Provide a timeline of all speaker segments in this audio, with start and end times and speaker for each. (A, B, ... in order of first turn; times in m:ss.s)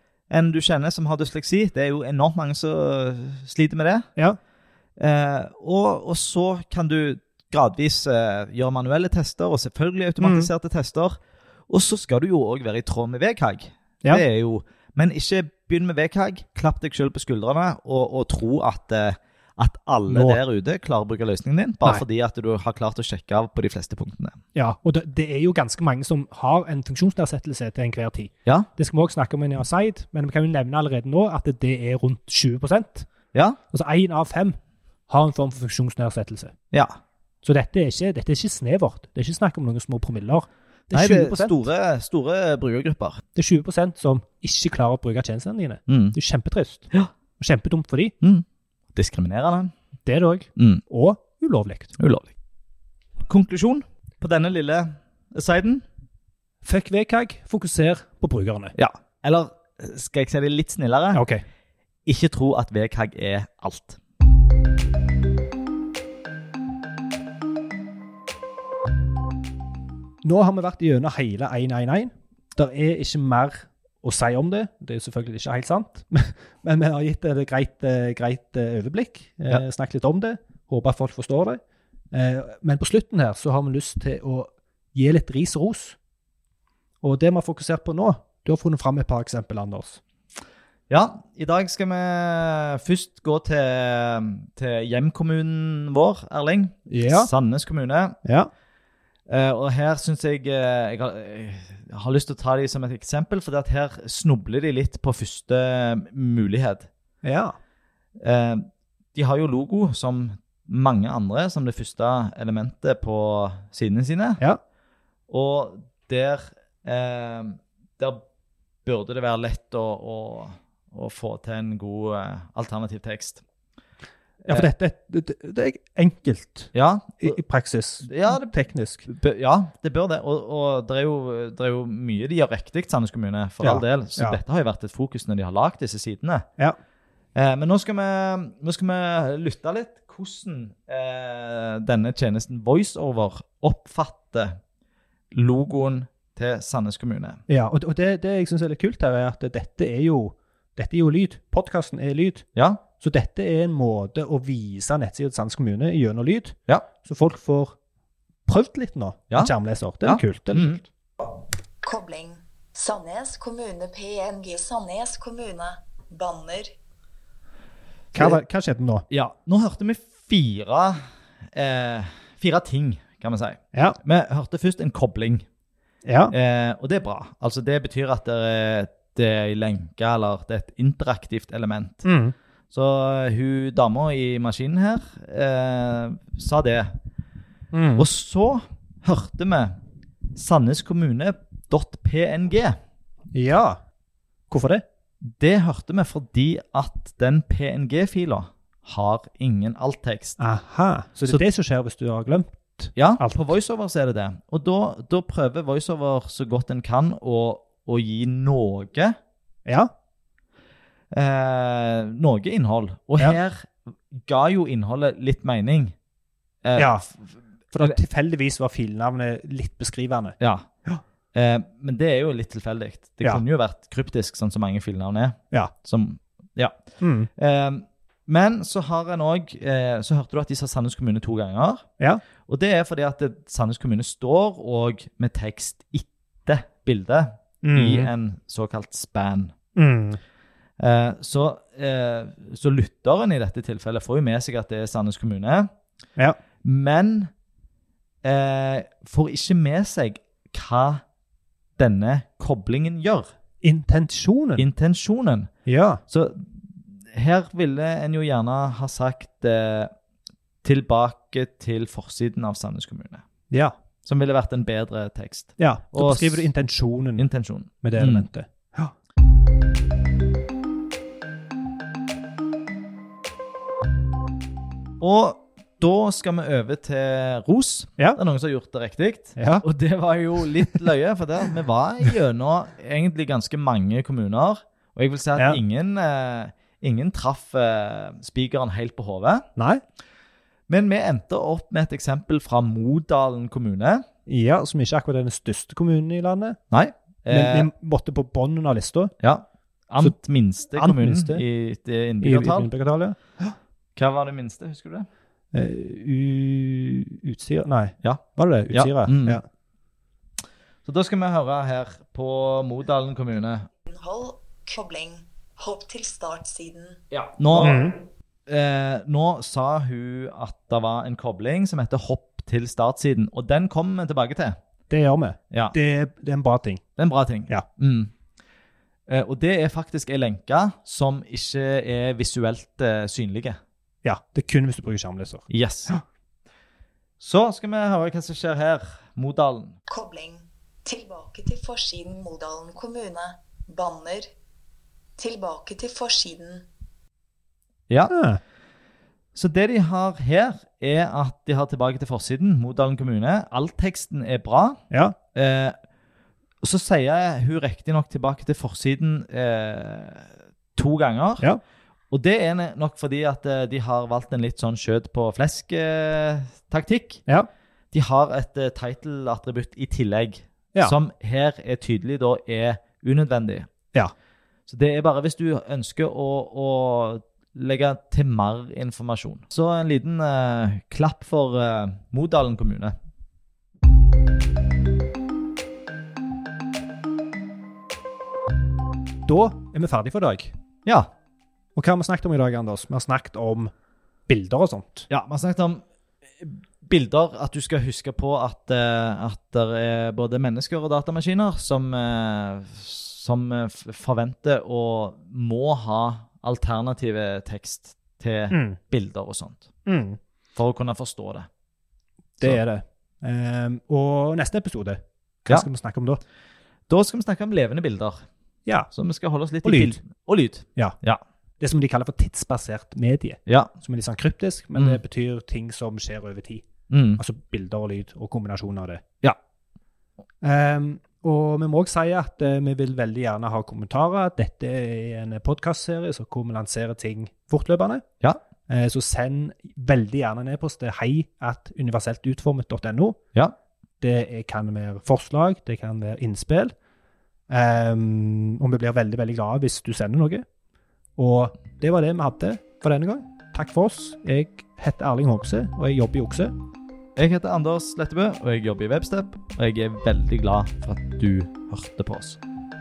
0:00.3-0:04.1 A
0:05.0-0:11.2 A
0:10.2-0:10.5 B
0:11.7-0:24.4 A
0:20.1-0:20.4 B
0:24.5-0:33.1 B
0:33.7-0:36.5 B
0:37.4-0:41.5 B
0:40.9-0:43.2 A
0:43.4-0:48.1 B
0:45.9-0:46.2 A
0:48.2-0:49.7 A
0:50.0-0:51.9 B
0:50.6-0:50.8 A
0:52.0-0:52.3 A
0:53.2-0:55.8 A
0:56.6-0:58.7 B
0:58.8-1:01.2 A
1:01.1-1:01.4 B
1:02.0-1:04.0 A
1:10.2-1:21.6 B
1:22.1-1:26.0 B
1:27.0-1:30.0 B
1:30.9-1:38.2 A
1:36.9-1:37.3 B
1:38.2-1:38.5 B
1:39.3-1:46.9 A
1:47.2-1:47.5 B
1:48.2-1:54.4 A
1:55.3-1:58.2 A
1:58.8-2:03.4 A
2:04.4-2:04.7 A
2:04.5-2:09.1 B
2:06.7-2:07.4 A
2:08.0-2:08.5 A
2:09.1-2:16.4 A
2:13.6-2:14.4 B
2:17.3-2:24.6 A
2:25.3-2:27.4 A
2:27.5-2:32.4 B
2:32.6-2:32.8 A
2:33.0-2:37.8 B
2:38.5-2:40.8 B
2:40.0-2:40.8 A
2:41.8-2:46.7 C
2:48.1-2:48.4 A
2:48.1-2:49.0 B
2:49.1-2:51.0 A
2:51.5-2:55.4 A
2:56.0-2:56.3 B
2:56.3-3:02.0 A
3:02.0-3:02.3 B
3:02.7-3:06.9 A
3:07.7-3:08.1 B
3:08.0-3:09.8 A
3:10.3-3:12.8 A
3:13.3-3:13.8 B
3:14.5-3:14.8 B
3:15.2-3:20.4 A
3:20.4-3:23.5 B
3:23.0-3:29.1 A
3:31.1-3:35.9 A
3:36.6-3:37.2 A
3:36.8-3:37.1 B
3:37.7-3:41.0 B
3:40.4-3:40.7 A
3:41.3-3:46.8 A
3:47.0-3:47.3 B
3:47.4-3:51.8 A
3:52.4-3:59.5 A
3:57.6-3:58.1 B
3:59.8-4:00.2 B
4:00.8-4:05.7 A
4:06.6-4:07.3 A
4:08.2-4:11.0 A
4:11.8-4:13.3 A
4:13.6-4:14.7 B
4:14.6-4:15.5 A
4:15.6-4:16.0 B
4:16.1-4:19.9 A
4:20.6-4:23.2 A
4:24.0-4:26.5 A
4:25.6-4:27.3 B
4:27.2-4:28.3 A
4:27.8-4:28.9 B
4:35.0-4:49.5 A
4:39.4-4:39.6 B
4:49.6-4:49.8 B
4:50.7-4:54.0 A
4:54.3-4:56.6 B
4:56.7-4:57.7 A
4:57.3-4:59.1 B
4:59.2-5:02.7 A
5:00.7-5:01.4 B
5:02.2-5:03.5 B
5:04.0-5:05.1 A
5:05.5-5:09.4 B
5:08.0-5:09.4 A
5:10.8-5:13.7 A
5:13.8-5:17.0 C
5:17.1-5:17.8 A
5:17.6-5:18.0 B
5:18.5-5:24.6 A
5:24.9-5:26.8 B
5:27.0-5:28.1 A
5:29.1-5:33.6 A
5:34.0-5:36.0 B
5:35.5-5:35.9 A
5:37.2-5:39.8 A
5:39.9-5:44.3 C
5:45.2-5:46.6 C
5:48.1-5:48.4 B
5:49.3-5:54.8 A
5:54.9-5:55.2 B
5:55.3-5:55.8 A
5:56.6-6:01.5 A
6:02.1-6:07.2 A
6:07.9-6:13.7 A
6:14.7-6:22.9 A
6:29.2-6:30.5 B
6:30.8-6:31.1 A
6:31.8-6:33.7 B
6:34.3-6:35.1 B
6:35.1-6:35.8 A
6:36.4-6:49.6 A
6:48.5-6:48.8 B
6:49.8-6:50.2 B
6:50.5-6:51.5 A
6:52.4-6:56.2 B
6:56.9-6:58.2 A
6:58.9-7:01.2 A
6:59.6-7:00.0 B
7:01.6-7:06.6 B
7:04.7-7:05.0 A
7:06.9-7:07.2 A
7:07.2-7:09.0 B
7:10.4-7:18.0 B
7:18.7-7:23.2 B
7:24.0-7:26.7 B
7:27.5-7:30.4 B
7:31.2-7:36.5 B
7:37.2-7:42.4 A